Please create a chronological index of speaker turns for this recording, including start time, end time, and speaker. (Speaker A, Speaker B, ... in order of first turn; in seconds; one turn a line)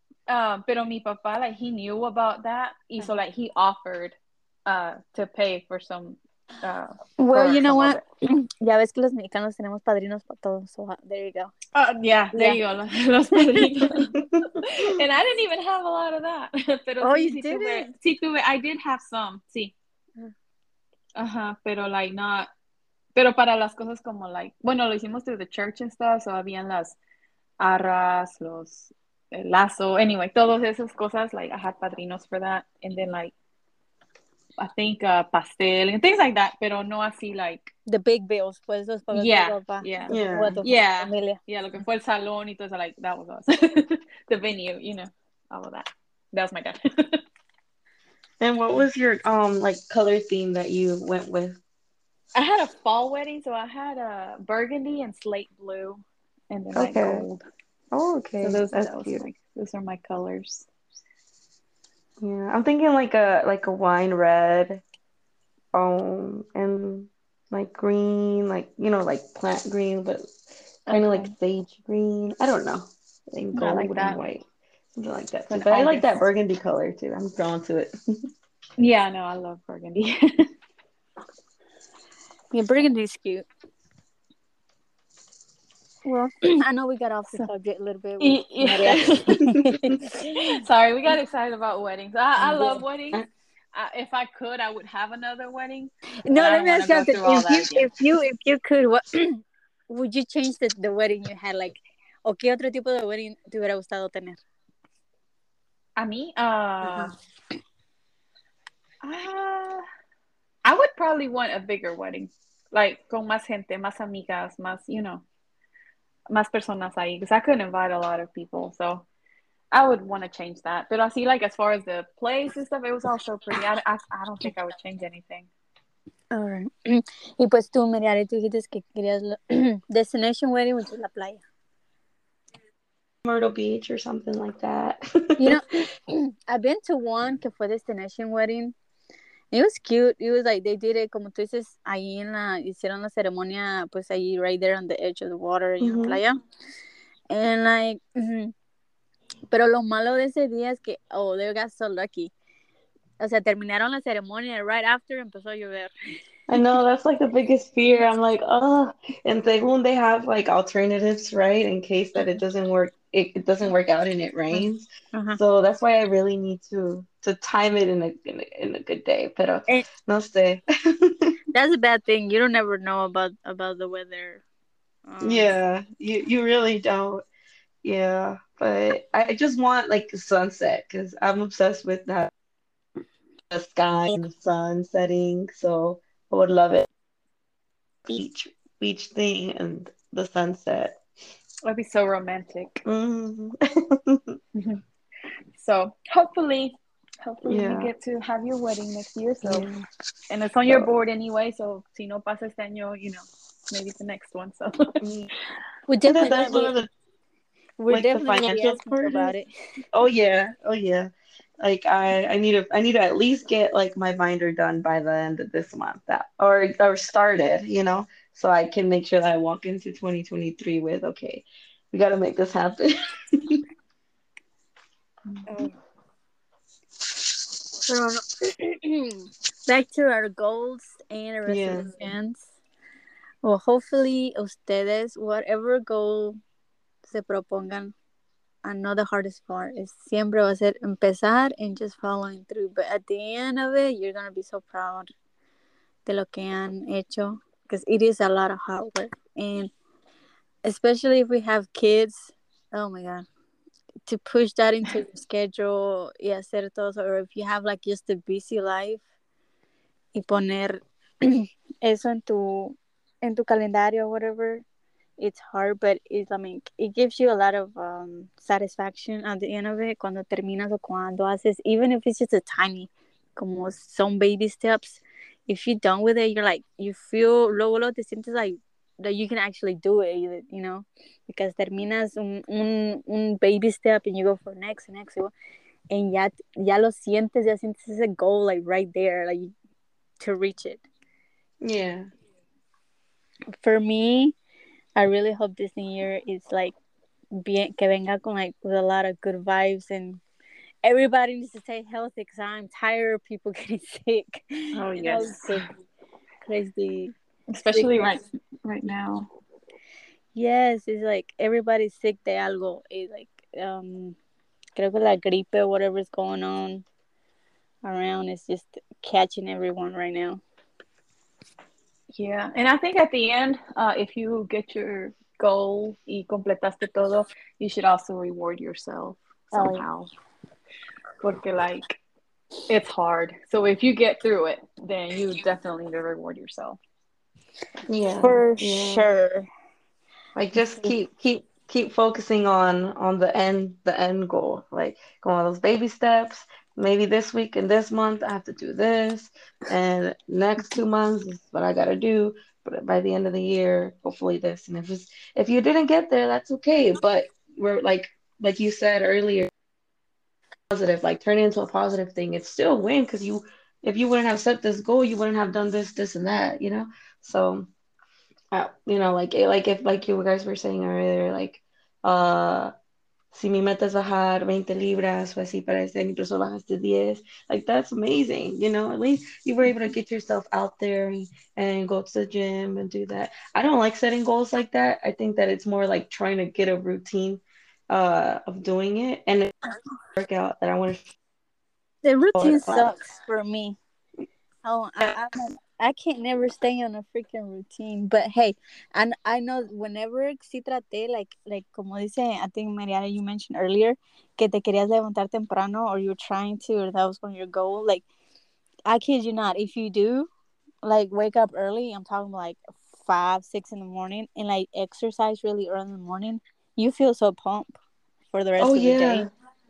Speaker A: 0.3-8.0
Speaker B: 7.2-11.5
Speaker A: 11.7-14.1
Speaker B: 12.3-12.6
Speaker B: 13.4-13.9
Speaker C: 14.1-14.9
Speaker A: 14.6-19.7
Speaker B: 17.0-17.9
Speaker A: 21.1-22.5
Speaker A: 23.1-27.0
Speaker A: 27.6-33.3
Speaker A: 34.6-37.7
Speaker B: 37.9-41.4
Speaker A: 39.1-47.2
Speaker C: 40.1-40.6
Speaker C: 48.4-51.6
Speaker A: 52.3-57.4
Speaker C: 56.7-57.2
Speaker C: 57.9-59.2
Speaker A: 58.4-60.7
Speaker C: 62.2-64.8
Speaker C: 65.7-70.3
Speaker A: 70.9-71.3
Speaker C: 70.9-74.4
Speaker A: 73.5-74.2
Speaker C: 74.9-78.3
Speaker A: 75.5-76.2
Speaker A: 78.8-80.5
Speaker B: 82.5-83.5
Speaker B: 86.0-90.6
Speaker A: 88.2-89.3
Speaker C: 89.3-90.0
Speaker A: 90.3-97.9
Speaker C: 92.4-93.2
Speaker B: 96.2-104.4
Speaker A: 106.0-107.1
Speaker A: 109.0-109.8
Speaker A: 110.6-115.2
Speaker A: 116.3-119.0
Speaker A: 119.7-125.5
Speaker B: 126.3-131.4
Speaker C: 133.2-135.6
Speaker B: 135.4-138.7
Speaker B: 139.5-146.4
Speaker C: 145.8-146.2
Speaker B: 147.3-148.5
Speaker B: 149.5-152.3
Speaker B: 153.2-155.9
Speaker C: 156.5-171.3
Speaker B: 164.5-165.4
Speaker B: 171.5-174.4
Speaker B: 175.1-175.6
Speaker C: 175.2-177.2
Speaker C: 177.8-182.3
Speaker C: 183.5-186.9
Speaker C: 188.1-191.0
Speaker A: 191.6-192.8
Speaker C: 192.8-194.4
Speaker A: 194.5-194.8
Speaker A: 195.5-199.7
Speaker C: 197.4-197.9
Speaker C: 199.4-199.8
Speaker A: 200.3-204.9
Speaker C: 205.0-205.3
Speaker B: 205.9-206.8
Speaker C: 206.0-206.9
Speaker B: 207.8-209.5
Speaker C: 207.9-209.3
Speaker C: 209.9-223.6
Speaker B: 225.5-225.7
Speaker B: 227.8-232.4
Speaker C: 231.4-231.9
Speaker B: 233.4-236.4
Speaker B: 237.1-237.9
Speaker B: 238.6-245.1
Speaker B: 246.1-249.7
Speaker B: 250.6-253.2
Speaker B: 254.1-259.0
Speaker B: 260.1-264.6
Speaker B: 265.2-285.3
Speaker B: 285.9-289.5
Speaker B: 290.2-290.8
Speaker C: 291.6-292.1
Speaker B: 293.6-294.3
Speaker B: 294.9-296.8
Speaker B: 297.3-300.2
Speaker B: 300.8-305.8
Speaker A: 304.8-305.6
Speaker B: 306.4-307.1
Speaker A: 307.5-309.3
Speaker B: 307.7-308.2
Speaker B: 310.3-314.2
Speaker B: 314.8-316.8
Speaker B: 317.8-320.4
Speaker A: 322.1-330.1
Speaker B: 329.5-329.8
Speaker A: 331.2-332.0
Speaker A: 332.7-336.8
Speaker C: 337.9-339.0
Speaker B: 338.2-339.5
Speaker C: 340.3-359.5
Speaker C: 360.7-367.7
Speaker C: 368.5-372.7
Speaker C: 373.3-389.5
Speaker C: 390.2-391.1
Speaker B: 392.0-393.8
Speaker C: 392.3-392.9
Speaker B: 394.6-408.0
Speaker B: 408.9-410.3
Speaker B: 410.8-417.7
Speaker B: 418.3-419.3
Speaker C: 418.6-419.3